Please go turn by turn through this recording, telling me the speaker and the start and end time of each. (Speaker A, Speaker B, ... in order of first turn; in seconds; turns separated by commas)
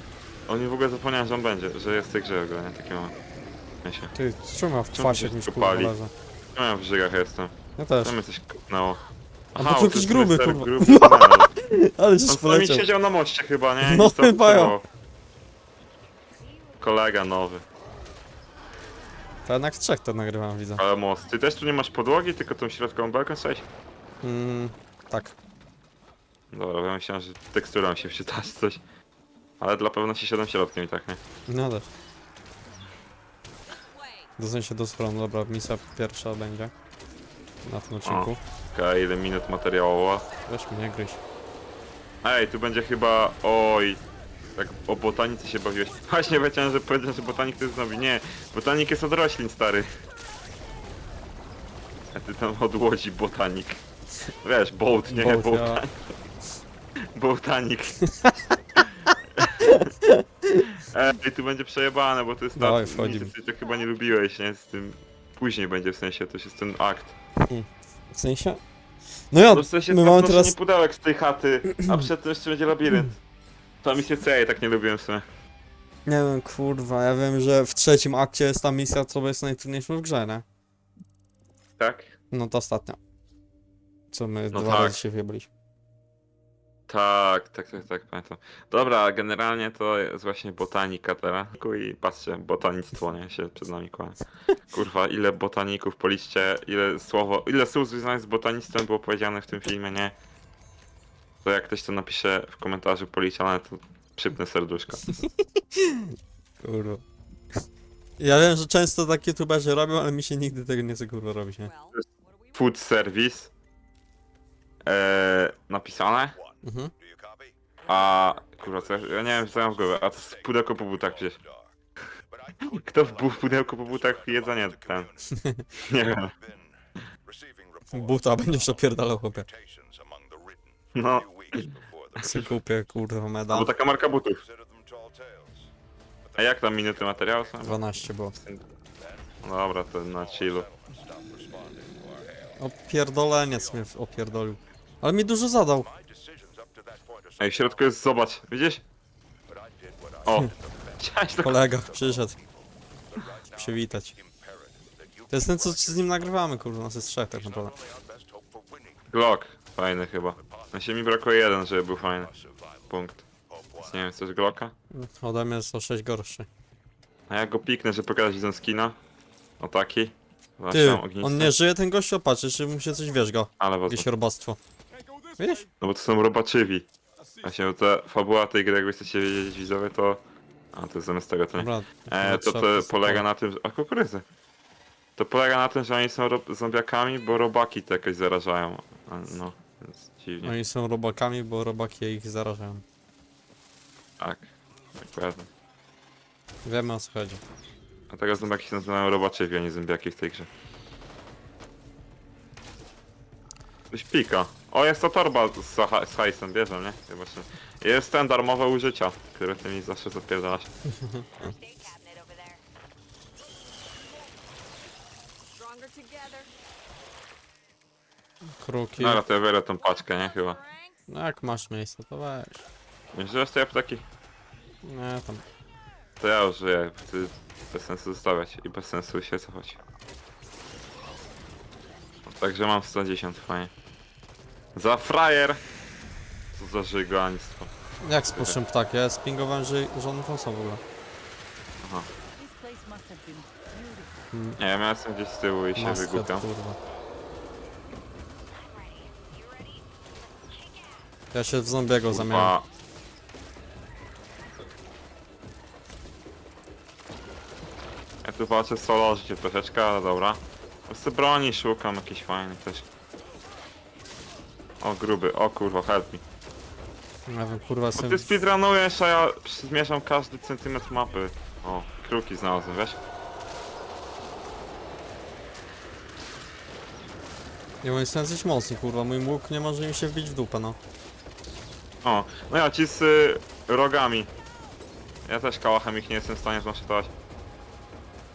Speaker A: 0.5-3.1, Speaker A: 3.8-4.1, Speaker B: 4.1-6.1, Speaker A: 4.9-5.9, Speaker A: 6.5-9.0, Speaker B: 7.8-8.1, Speaker A: 9.5-11.5, Speaker B: 9.6-12.9, Speaker A: 12.3-14.9, Speaker B: 13.8-14.8, Speaker A: 16.8-17.6, Speaker B: 19.4-20.8, Speaker A: 20.8-23.6, Speaker B: 24.2-25.4, Speaker A: 26.5-28.8, Speaker A: 29.6-31.2, Speaker B: 31.5-31.9, Speaker C: 33.8-34.3, Speaker B: 34.4-36.7, Speaker B: 37.6-38.4, Speaker A: 38.0-40.2, Speaker B: 40.5-41.2, Speaker A: 42.2-44.0, Speaker A: 44.5-50.0, Speaker A: 52.1-55.9, Speaker B: 55.1-55.8, Speaker A: 57.1-58.0, Speaker A: 58.8-59.6, Speaker B: 59.6-60.7, Speaker A: 60.7-67.2, Speaker B: 62.5-63.3, Speaker B: 67.4-68.6, Speaker B: 69.3-70.5, Speaker A: 69.5-73.1, Speaker A: 73.8-75.2, Speaker B: 76.0-80.4, Speaker A: 81.8-82.1, Speaker B: 82.3-83.0, Speaker B: 84.1-85.5, Speaker A: 84.5-85.0, Speaker A: 86.9-94.2, Speaker A: 94.7-100.1, Speaker A: 101.4-105.0, Speaker B: 105.1-107.0, Speaker B: 108.2-111.7, Speaker C: 111.6-112.6, Speaker A: 112.5-113.5, Speaker A: 114.8-116.4, Speaker B: 116.6-116.9, Speaker A: 117.9-121.4, Speaker A: 122.6-125.1, Speaker B: 125.3-125.7, Speaker A: 125.8-126.3, Speaker B: 127.9-129.5, Speaker A: 130.9-132.4, Speaker B: 132.2-133.7, Speaker A: 133.5-134.4, Speaker A: 136.3-138.6, Speaker B: 137.6-138.3, Speaker A: 139.4-140.7, Speaker B: 142.6-145.9, Speaker A: 147.4-148.8, Speaker A: 150.2-151.6, Speaker B: 151.4-152.4, Speaker B: 153.4-154.1, Speaker B: 155.3-157.8, Speaker A: 159.1-162.3, Speaker A: 162.9-163.2, Speaker A: 163.8-164.7, Speaker B: 164.9-166.5, Speaker A: 167.3-169.0, Speaker A: 169.6-171.5, Speaker B: 170.7-174.6, Speaker A: 173.6-174.1, Speaker B: 175.4-175.7, Speaker A: 175.8-176.9, Speaker A: 177.4-180.2, Speaker A: 180.7-184.2, Speaker B: 181.6-183.2, Speaker A: 185.2-190.5, Speaker B: 190.4-192.8, Speaker A: 194.2-195.5, Speaker B: 196.6-197.4, Speaker A: 198.1-200.5, Speaker A: 203.9-210.7, Speaker B: 210.9-211.3, Speaker C: 211.4-212.6, Speaker C: 215.4-216.5, Speaker B: 218.6-219.2, Speaker A: 219.0-220.6, Speaker C: 219.8-221.1, Speaker B: 221.1-222.6, Speaker A: 223.1-224.0, Speaker B: 224.8-225.4, Speaker A: 226.2-229.8, Speaker A: 232.2-233.7, Speaker A: 234.8-235.6, Speaker A: 236.5-237.7, Speaker B: 238.0-240.8, Speaker A: 241.8-242.1, Speaker C: 242.4-244.2, Speaker B: 244.3-244.6, Speaker A: 244.6-246.4, Speaker B: 245.8-246.8, Speaker C: 248.5-251.1, Speaker B: 251.3-252.5, Speaker A: 252.1-252.6, Speaker A: 258.2-262.9, Speaker A: 264.8-266.2, Speaker B: 267.3-268.2, Speaker A: 268.0-273.0, Speaker B: 277.8-280.8, Speaker A: 282.0-284.3, Speaker A: 285.2-287.1